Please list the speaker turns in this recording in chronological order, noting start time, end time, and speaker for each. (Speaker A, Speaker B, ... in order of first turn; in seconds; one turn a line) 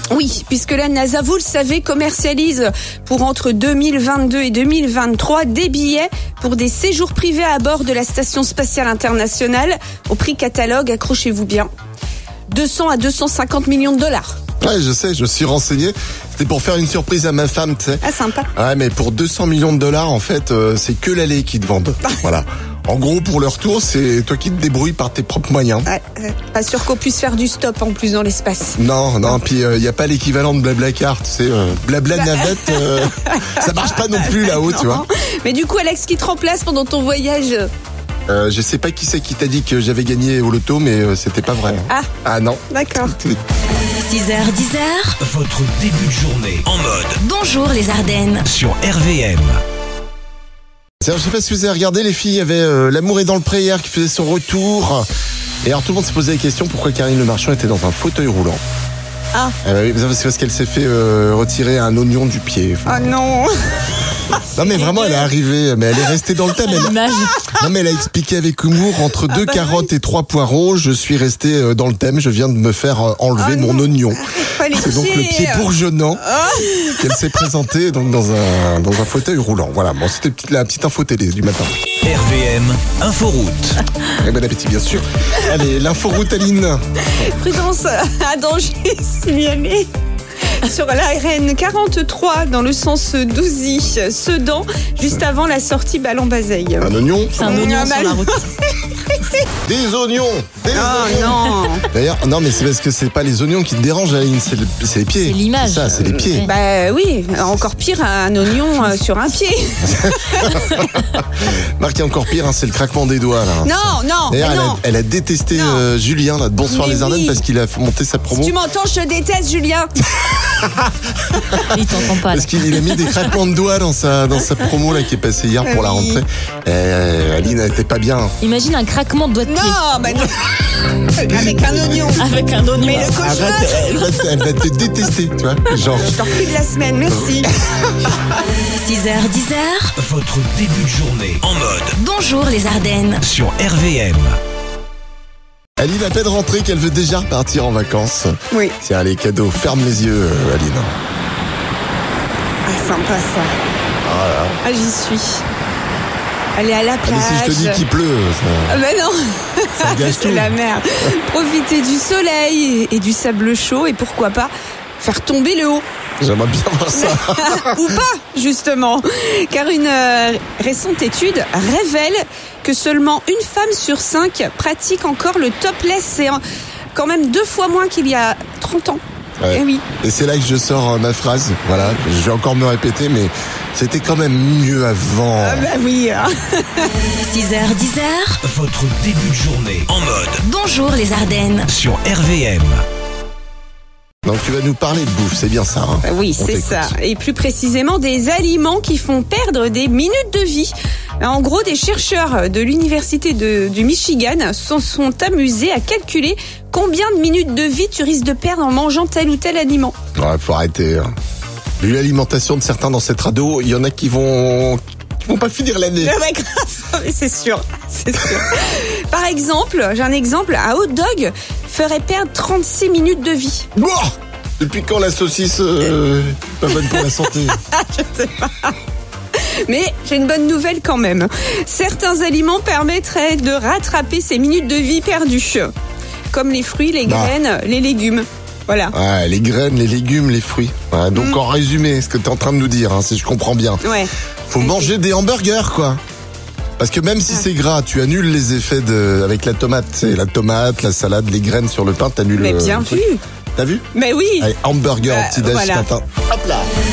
Speaker A: 0.1-11.7
Speaker A: 12.5-14.4
Speaker B: 14.6-18.0
Speaker A: 18.0-18.5
Speaker B: 18.6-25.9
Speaker A: 25.9-28.8
Speaker B: 28.8-35.0
Speaker A: 32.2-37.7
Speaker B: 38.3-43.4
Speaker A: 42.7-43.1
Speaker C: 44.0-45.2
Speaker D: 45.2-47.2
Speaker C: 47.2-48.5
Speaker D: 48.4-49.6
Speaker B: 51.0-55.1
Speaker B: 55.6-58.6
Speaker B: 59.6-63.1
Speaker A: 62.9-65.3
Speaker B: 64.4-76.2
Speaker E: 66.7-67.4
Speaker A: 67.1-67.5
Speaker A: 69.3-69.8
Speaker A: 73.4-75.7
Speaker A: 76.2-77.4
Speaker B: 76.8-81.8
Speaker D: 82.0-83.8
Speaker B: 84.2-86.8
Speaker A: 87.1-89.9
Speaker A: 90.6-96.9
Speaker B: 96.8-97.7
Speaker E: 97.3-98.5
Speaker A: 97.4-99.5
Speaker B: 99.6-106.5
Speaker A: 100.7-101.8
Speaker E: 105.2-106.5
Speaker A: 106.0-110.8
Speaker B: 109.9-118.6
Speaker A: 113.6-114.8
Speaker A: 115.5-115.8
Speaker A: 116.7-117.4
Speaker A: 118.3-119.9
Speaker B: 120.3-121.7
Speaker E: 121.7-122.5
Speaker B: 122.3-128.3
Speaker A: 125.6-126.2
Speaker E: 128.4-129.8
Speaker A: 129.4-132.3
Speaker B: 131.3-132.0
Speaker E: 132.2-134.0
Speaker A: 132.8-134.1
Speaker B: 133.2-136.2
Speaker A: 135.9-137.5
Speaker B: 137.1-138.2
Speaker C: 138.8-139.9
Speaker D: 140.0-142.0
Speaker C: 141.9-143.2
Speaker D: 143.2-144.4
Speaker B: 145.8-151.0
Speaker A: 152.7-153.5
Speaker B: 154.1-154.6
Speaker A: 154.6-155.4
Speaker A: 156.6-157.8
Speaker B: 157.0-158.8
Speaker A: 158.7-165.8
Speaker B: 159.8-160.5
Speaker B: 166.2-167.8
Speaker A: 166.9-176.4
Speaker A: 176.9-179.0
Speaker B: 179.4-185.7
Speaker A: 179.5-179.8
Speaker A: 185.4-186.9
Speaker C: 187.2-188.4
Speaker D: 188.4-190.4
Speaker C: 190.4-191.7
Speaker D: 191.7-192.8
Speaker B: 194.2-196.9
Speaker A: 196.0-209.9
Speaker B: 210.2-211.1
Speaker B: 211.8-216.2
Speaker A: 216.0-223.7
Speaker B: 223.8-227.6
Speaker A: 226.7-228.8
Speaker A: 229.3-235.7
Speaker A: 236.3-238.9
Speaker B: 237.1-237.3
Speaker B: 238.9-243.8
Speaker A: 241.2-241.4
Speaker A: 243.8-244.9
Speaker B: 244.5-246.0
Speaker B: 246.8-253.1
Speaker A: 252.4-253.2
Speaker B: 253.6-253.8
Speaker A: 253.9-254.5
Speaker B: 254.4-256.7
Speaker A: 255.0-255.9